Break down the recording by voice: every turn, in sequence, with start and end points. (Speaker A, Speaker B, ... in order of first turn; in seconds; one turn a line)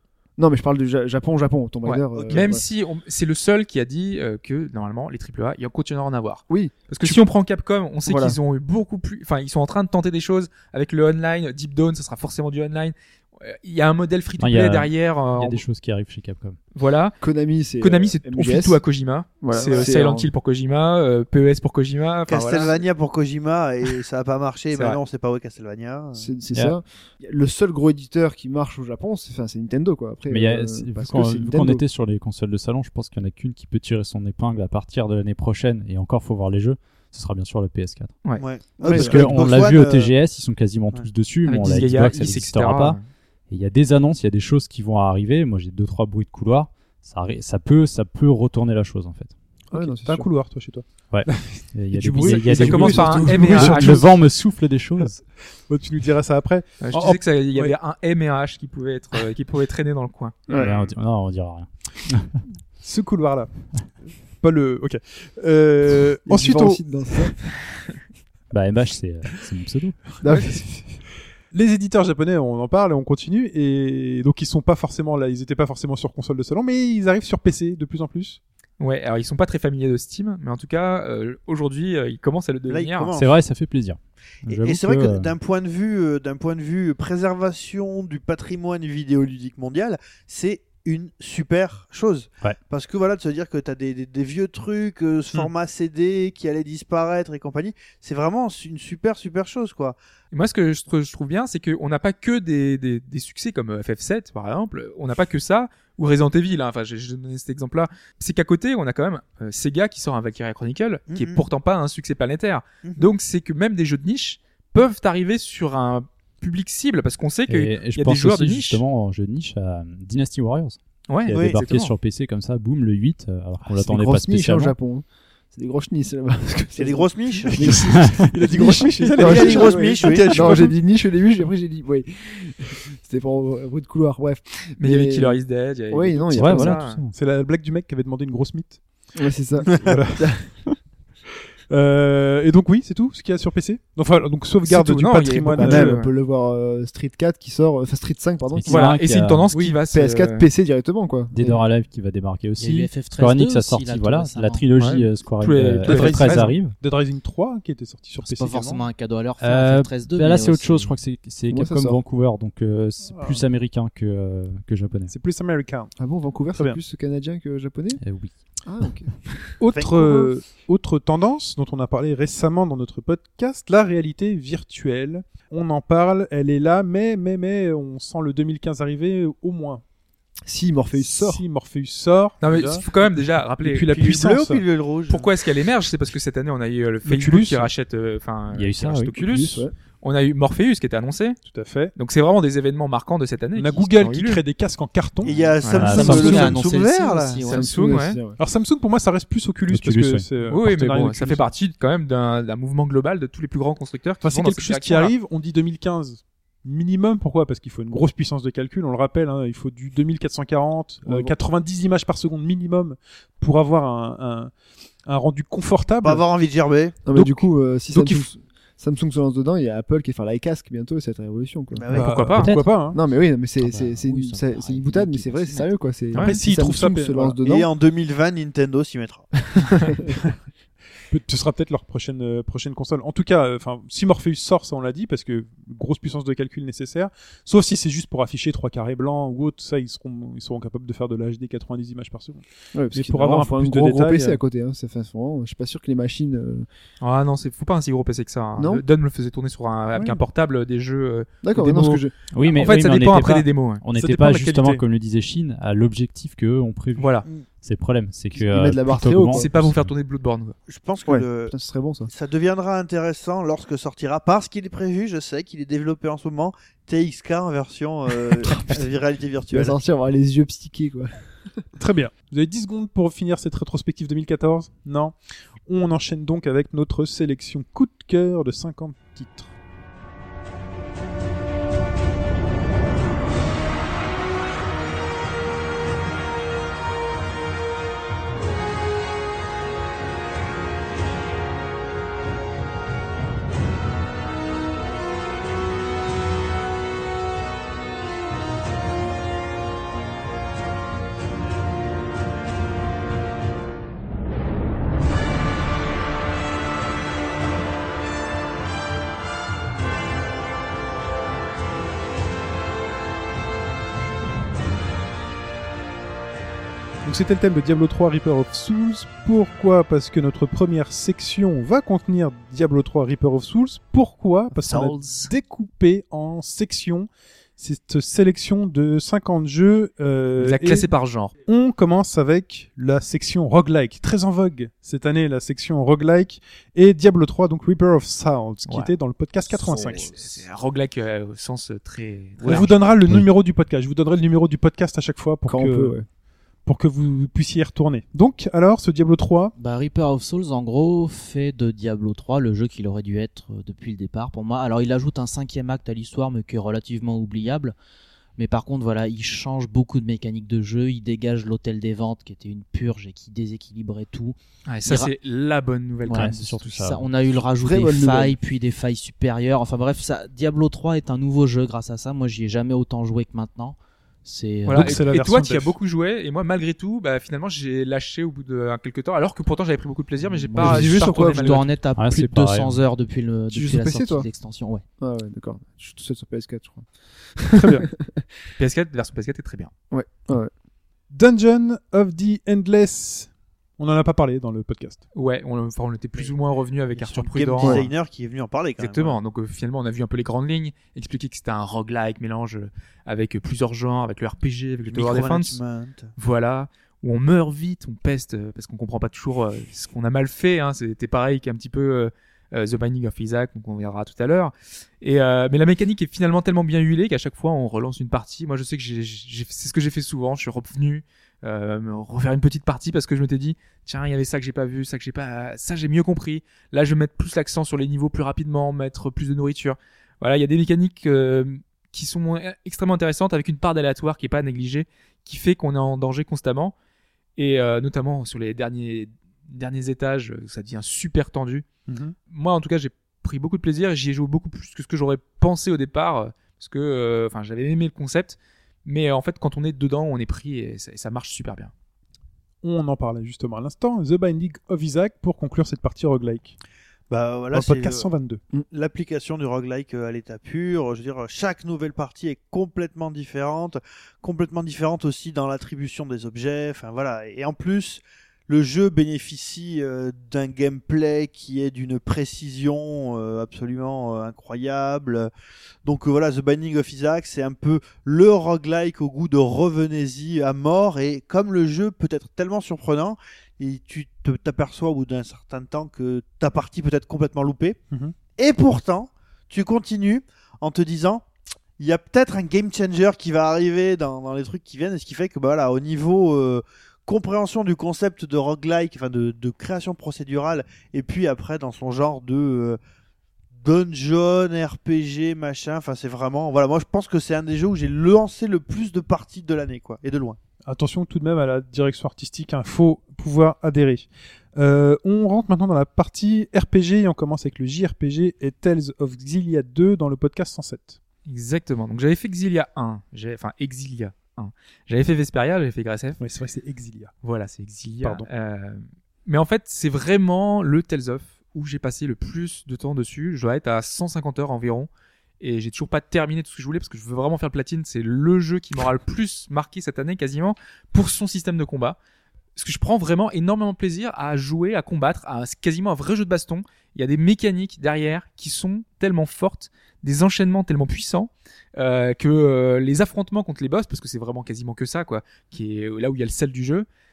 Speaker A: 0.4-2.6
Speaker B: 1.9-15.6
Speaker C: 2.1-2.5
Speaker A: 6.5-7.2
Speaker A: 8.1-8.4
Speaker D: 14.4-16.6
Speaker B: 16.8-17.2
Speaker A: 17.2-18.8
Speaker B: 17.8-22.8
Speaker A: 19.4-20.3
Speaker C: 19.5-20.0
Speaker C: 22.3-26.3
Speaker B: 24.7-25.0
Speaker A: 26.2-31.8
Speaker D: 30.3-38.1
Speaker C: 38.4-40.1
Speaker D: 38.8-43.0
Speaker A: 38.8-39.3
Speaker B: 41.5-43.0
Speaker D: 43.5-49.3
Speaker A: 49.7-50.3
Speaker E: 49.7-54.1
Speaker D: 51.1-55.2
Speaker B: 52.2-54.1
Speaker E: 55.7-57.7
Speaker B: 56.8-60.5
Speaker D: 60.5-62.4
Speaker E: 62.8-63.6
Speaker E: 64.4-66.8
Speaker A: 66.3-67.5
Speaker D: 68.5-70.0
Speaker A: 70.2-71.0
Speaker E: 71.5-78.4
Speaker B: 78.8-83.1
Speaker C: 82.7-83.4
Speaker D: 83.1-85.3
Speaker C: 84.5-100.0
Speaker B: 100.3-118.8
Speaker C: 111.1-111.4
Speaker C: 112.8-113.1
Speaker D: 117.5-124.7
Speaker B: 121.1-121.9
Speaker C: 121.3-121.6
Speaker A: 123.7-136.9
Speaker C: 126.8-127.8
Speaker E: 127.5-130.8
Speaker D: 128.0-128.3
Speaker C: 129.2-130.8
Speaker B: 134.8-137.0
Speaker D: 136.3-137.1
Speaker E: 137.1-138.8
Speaker A: 139.2-140.5
Speaker E: 139.8-140.3
Speaker E: 141.7-146.0
Speaker B: 144.7-146.1
Speaker A: 145.6-149.0
Speaker D: 148.6-149.5
Speaker B: 148.7-150.5
Speaker E: 149.5-149.8
Speaker A: 149.9-151.6
Speaker D: 151.3-156.8
Speaker F: 152.6-154.6
Speaker B: 154.8-156.5
Speaker E: 155.8-158.8
Speaker F: 158.2-160.9
Speaker D: 159.4-165.1
Speaker A: 161.5-162.0
Speaker E: 163.1-163.5
Speaker E: 165.1-165.9
Speaker A: 166.0-168.0
Speaker D: 168.0-168.3
Speaker A: 168.7-169.6
Speaker E: 169.6-179.8
Speaker C: 169.7-170.3
Speaker A: 180.5-181.4
Speaker E: 181.0-182.9
Speaker B: 182.4-184.0
Speaker E: 183.6-184.6
Speaker C: 183.9-185.3
Speaker B: 185.1-191.4
Speaker E: 187.0-187.7
Speaker D: 188.5-189.4
Speaker A: 189.2-189.7
Speaker E: 191.4-191.9
Speaker B: 191.9-194.4
Speaker E: 193.6-195.6
Speaker C: 195.2-197.4
Speaker B: 195.6-196.2
Speaker D: 195.7-196.6
Speaker F: 195.8-197.7
Speaker E: 196.1-196.4
Speaker B: 197.5-198.2
Speaker A: 197.5-198.4
Speaker E: 198.4-201.4
Speaker D: 199.7-200.3
Speaker B: 200.5-205.1
Speaker E: 204.2-214.5
Speaker A: 211.1-211.3
Speaker E: 215.1-216.2
Speaker C: 216.0-217.1
Speaker A: 217.1-221.9
Speaker E: 217.1-218.2
Speaker C: 221.7-222.3
Speaker E: 221.9-223.0
Speaker B: 221.9-222.6
Speaker D: 222.4-222.7
Speaker A: 222.9-227.7
Speaker F: 223.6-225.7
Speaker B: 226.1-226.4
Speaker E: 226.2-227.4
Speaker C: 227.4-229.9
Speaker A: 229.8-230.1
Speaker E: 231.1-244.4
Speaker A: 242.7-246.7
Speaker B: 247.0-253.8
Speaker A: 248.6-248.8
Speaker E: 249.9-250.2
Speaker A: 251.4-252.1
Speaker D: 252.3-259.9
Speaker E: 254.0-254.8
Speaker B: 257.0-257.3
Speaker A: 258.3-259.5
Speaker B: 259.3-260.6
Speaker C: 260.7-261.5
Speaker A: 261.1-262.1
Speaker C: 262.1-269.8
Speaker A: 269.5-271.1
Speaker E: 271.8-275.1
Speaker E: 275.7-279.5
Speaker E: 317.0-330.9
Speaker B: 324.7-325.3
Speaker B: 330.4-331.3
Speaker E: 331.5-340.2
Speaker B: 338.7-338.9
Speaker B: 339.5-342.9
Speaker E: 342.4-346.0
Speaker A: 345.5-346.1
Speaker E: 346.6-349.5
Speaker F: 349.6-357.8
Speaker F: 358.4-365.1
Speaker B: 364.7-366.7
Speaker F: 366.1-375.0
Speaker D: 366.1-367.1
Speaker A: 367.6-368.4
Speaker B: 374.7-381.7
Speaker E: 374.7-375.8
Speaker A: 380.6-381.6
Speaker F: 380.6-384.8
Speaker D: 382.0-382.8
Speaker A: 383.5-384.3
Speaker A: 385.0-388.2
Speaker E: 387.6-387.9
Speaker B: 388.6-389.7
Speaker A: 389.9-390.5
Speaker E: 391.1-395.0
Speaker B: 395.1-397.9
Speaker C: 397.0-399.2
Speaker B: 398.8-405.6
Speaker C: 404.9-406.1
Speaker B: 406.2-436.7
Speaker B: 437.4-441.7
Speaker E: 441.9-442.1
Speaker B: 442.3-451.7
Speaker E: 452.6-456.6
Speaker C: 457.1-458.1
Speaker E: 457.5-458.4
Speaker C: 458.7-475.3
Speaker C: 475.9-487.8
Speaker C: 488.3-491.2
Speaker C: 491.8-502.8
Speaker C: 503.6-510.4
Speaker E: 510.6-521.0
Speaker B: 521.3-526.2
Speaker E: 526.2-527.1
Speaker B: 527.2-534.9
Speaker B: 535.4-542.0
Speaker B: 542.6-556.9